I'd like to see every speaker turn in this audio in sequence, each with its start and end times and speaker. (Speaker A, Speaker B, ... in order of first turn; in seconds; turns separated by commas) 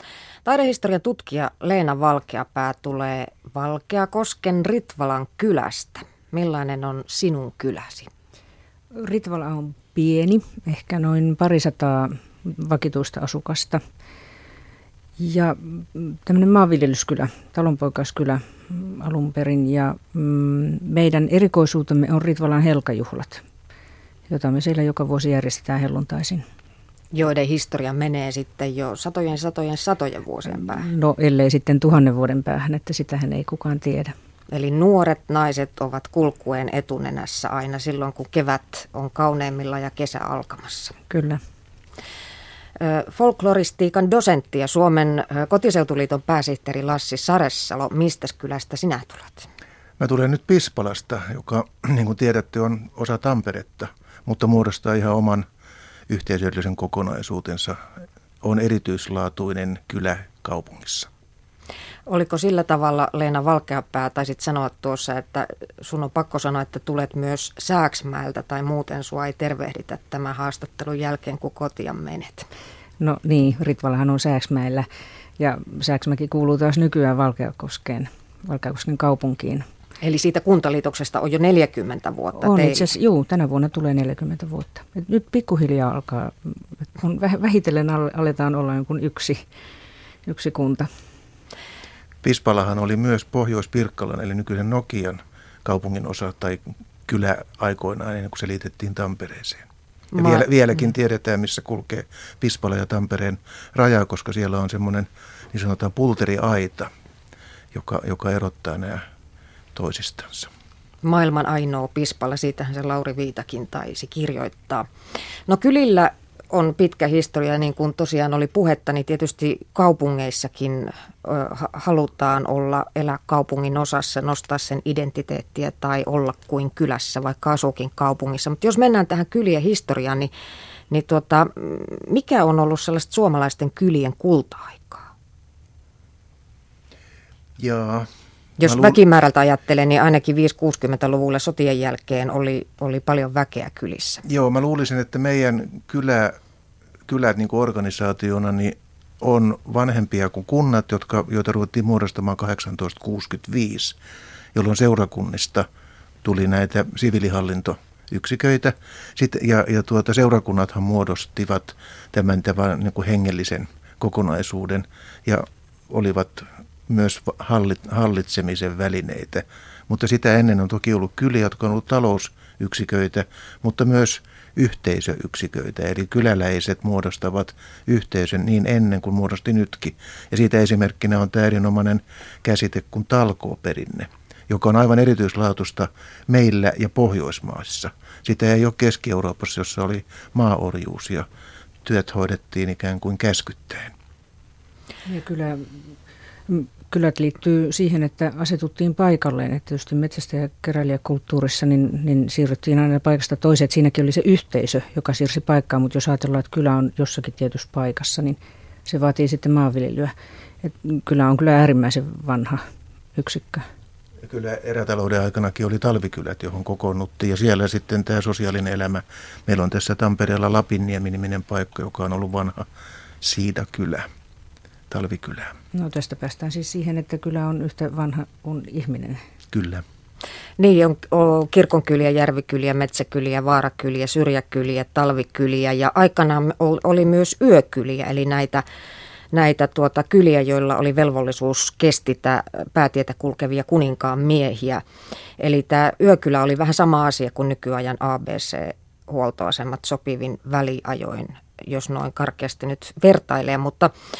Speaker A: 0.4-8.1, Speaker B: 8.9-13.8, Speaker B: 15.2-23.4, Speaker B: 24.3-26.4, Speaker A: 27.1-30.9, Speaker B: 30.5-34.1, Speaker A: 34.5-40.9, Speaker B: 41.1-41.4, Speaker A: 42.8-49.5, Speaker C: 50.0-55.5, Speaker C: 56.1-57.8, Speaker C: 58.4-61.1, Speaker A: 62.1-72.5, Speaker B: 73.0-74.9, Speaker B: 75.4-79.6, Speaker A: 80.0-82.8, Speaker B: 82.4-89.4, Speaker B: 90.2-90.9, Speaker C: 92.2-106.9, Speaker A: 100.1-100.4, Speaker C: 107.7-109.0, Speaker C: 109.7-110.5, Speaker A: 111.0-114.9, Speaker A: 115.5-130.3, Speaker A: 130.9-135.1, Speaker C: 137.6-138.1, Speaker A: 138.6-144.2, Speaker C: 138.6-139.0, Speaker C: 144.2-146.4, Speaker C: 147.1-154.0, Speaker C: 154.5-155.7, Speaker C: 156.2-191.2, Speaker C: 191.8-193.9, Speaker B: 195.0-195.8, Speaker B: 196.5-212.6, Speaker B: 213.1-213.6, Speaker C: 214.2-222.7, Speaker C: 223.2-224.1, Speaker C: 224.9-225.5, Speaker B: 225.7-229.2, Speaker C: 229.5-229.8, Speaker A: 230.6-238.6, Speaker A: 239.3-244.8, Speaker A: 245.4-253.9